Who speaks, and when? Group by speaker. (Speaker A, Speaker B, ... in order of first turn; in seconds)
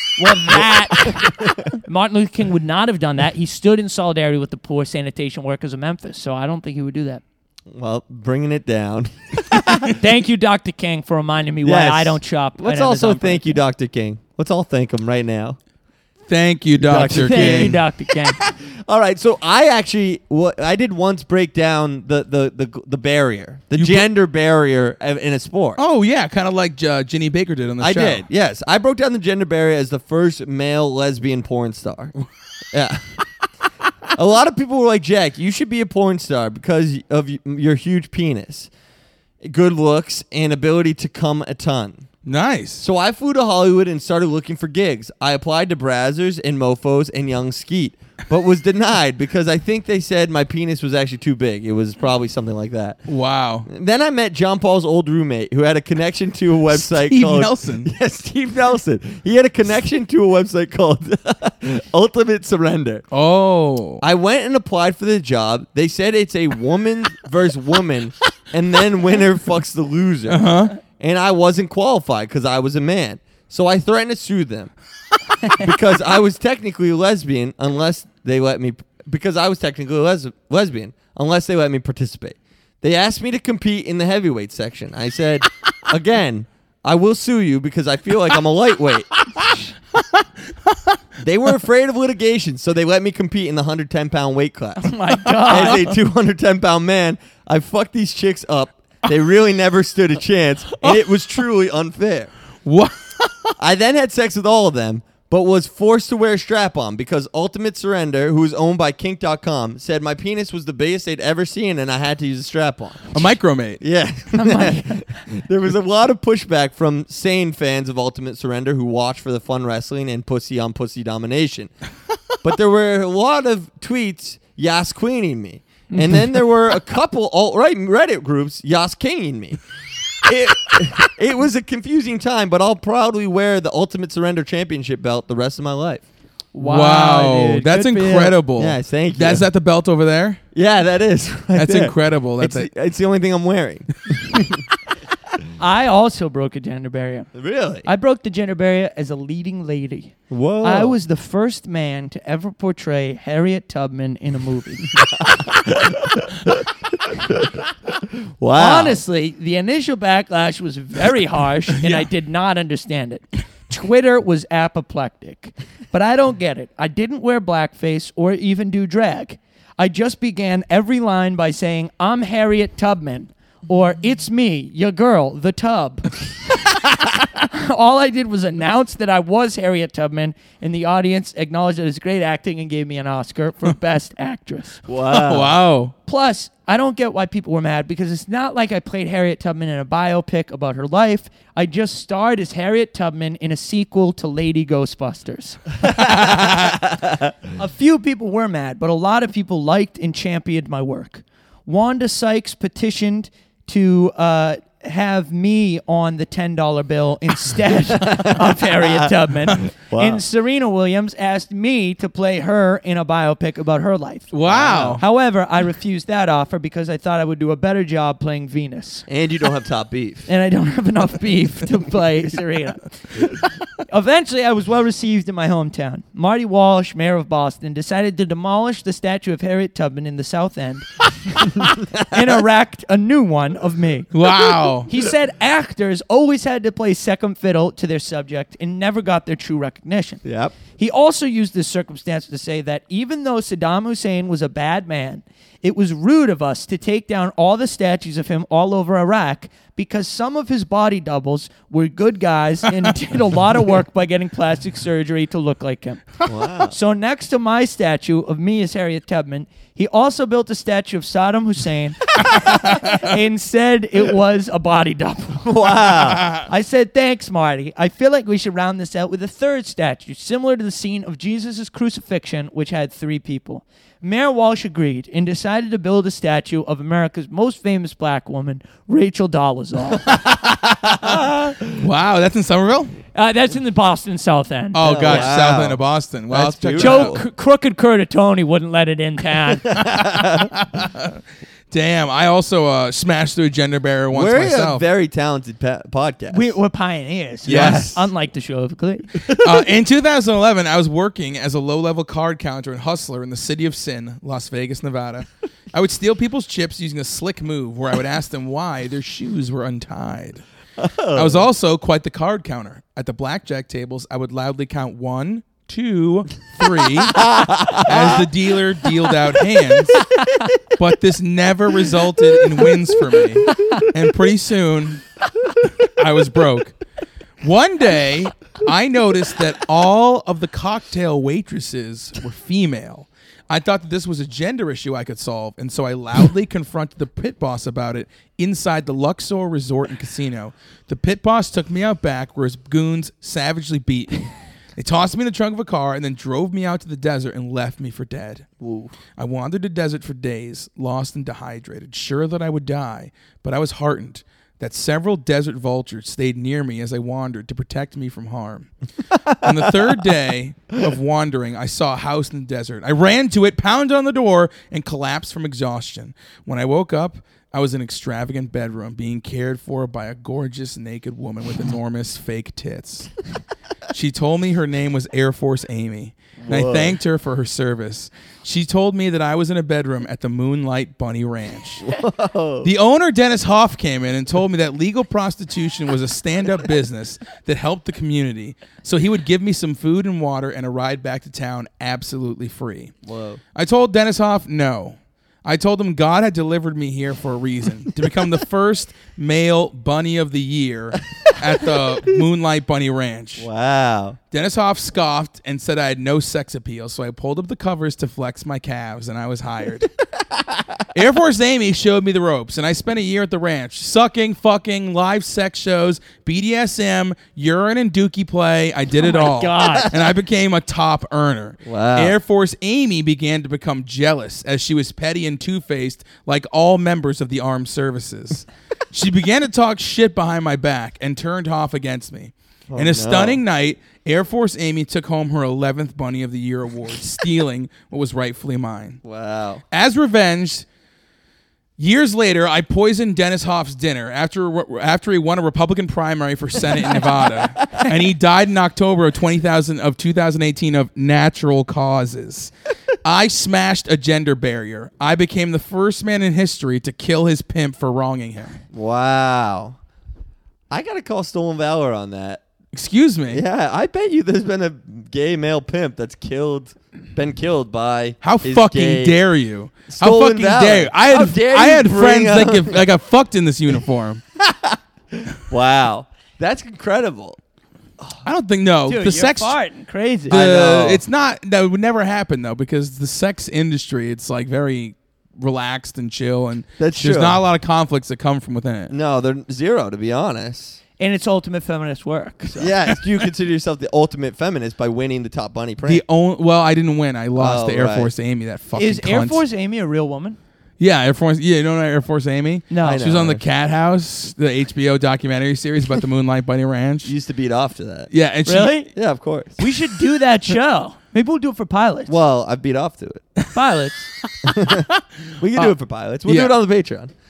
Speaker A: 0.2-7.2, 9.9-13.6, 17.1-18.4, 94.8-95.9, 114.3-115.2, 125.9-126.3, 136.5-138.4, 145.6-147.3, 147.8-154.9, 158.6-176.2, 177.4-184.8, 186.1-196.5, 197.6-214.3, 215.0-219.1, 220.3-223.2, 223.8-234.1, 234.9-240.2, 240.7-280.2, 283.1-285.3, 286.8-289.7, 296.3-299.2, 419.0-419.9, 478.9-480.4, 491.0-492.7, 498.8-500.4, 502.7-503.0, 508.5-508.9, 509.6-512.1, 513.5-514.1
Speaker B: 0.5-1.6, 7.7-10.0, 11.6-15.6, 16.8-25.8, 27.8-32.1, 32.7-33.1, 34.1-38.7, 39.4-42.0, 42.8-53.1, 53.7-63.1, 64.0-74.7, 75.5-89.2, 91.2-102.3, 103.6-121.7, 122.4-129.6, 130.2-136.1, 138.6-139.4, 140.5-144.6, 147.3-147.9, 150.3-151.0, 155.1-157.6, 158.4-159.0, 184.9-185.6, 196.1-197.2, 207.9-209.1, 209.7-210.2, 214.5-215.0, 219.1-220.3, 232.0-232.3, 240.2-240.6, 256.3-256.8, 265.5-266.4, 280.8-281.6, 284.8-287.2, 289.6-290.5, 294.1-296.5, 297.5-298.1, 299.2-299.7, 310.8-311.5, 317.1-318.2, 348.6-348.9, 359.5-359.9, 376.4-377.0, 381.8-382.7, 393.1-393.4, 403.4-404.2, 419.6-420.0, 421.6-422.1, 432.7-433.4, 439.0-439.6, 458.7-459.8, 460.7-462.4, 463.3-469.2, 469.9-472.8, 474.4-477.4, 480.3-481.0, 486.8-487.4, 488.9-490.8, 492.6-496.0, 497.4-498.1, 502.8-503.4, 507.0-508.1, 508.9-509.7, 512.1-513.2, 514.4-517.1
Speaker C: 16.3-17.8, 23.8-24.1, 25.8-28.2, 42.3-42.8, 53.1-53.7, 56.7-57.9, 63.1-64.0, 70.3-70.8, 89.4-90.2, 95.6-95.9, 102.7-103.5, 113.1-113.8, 136.6-140.4, 141.6-142.7, 161.8-162.1, 185.1-185.9, 214.3-215.0, 234.1-234.9, 280.3-282.9, 284.7-287.2, 289.9-291.2, 291.7-294.8, 297.5-297.9, 299.4-310.4, 311.1-320.1, 320.8-325.0, 325.8-326.8, 327.4-348.6, 349.2-358.7, 359.3-373.1, 373.9-381.9, 382.6-392.9, 393.6-403.5, 404.3-409.9, 410.9-439.0, 439.7-440.6, 441.8-452.5, 453.1-458.6, 462.7-463.4, 468.2-474.2, 478.2-479.6, 480.3-488.9, 495.8-499.4, 500.8-507.1, 508.1-508.8, 514.5-514.8, 516.2-516.5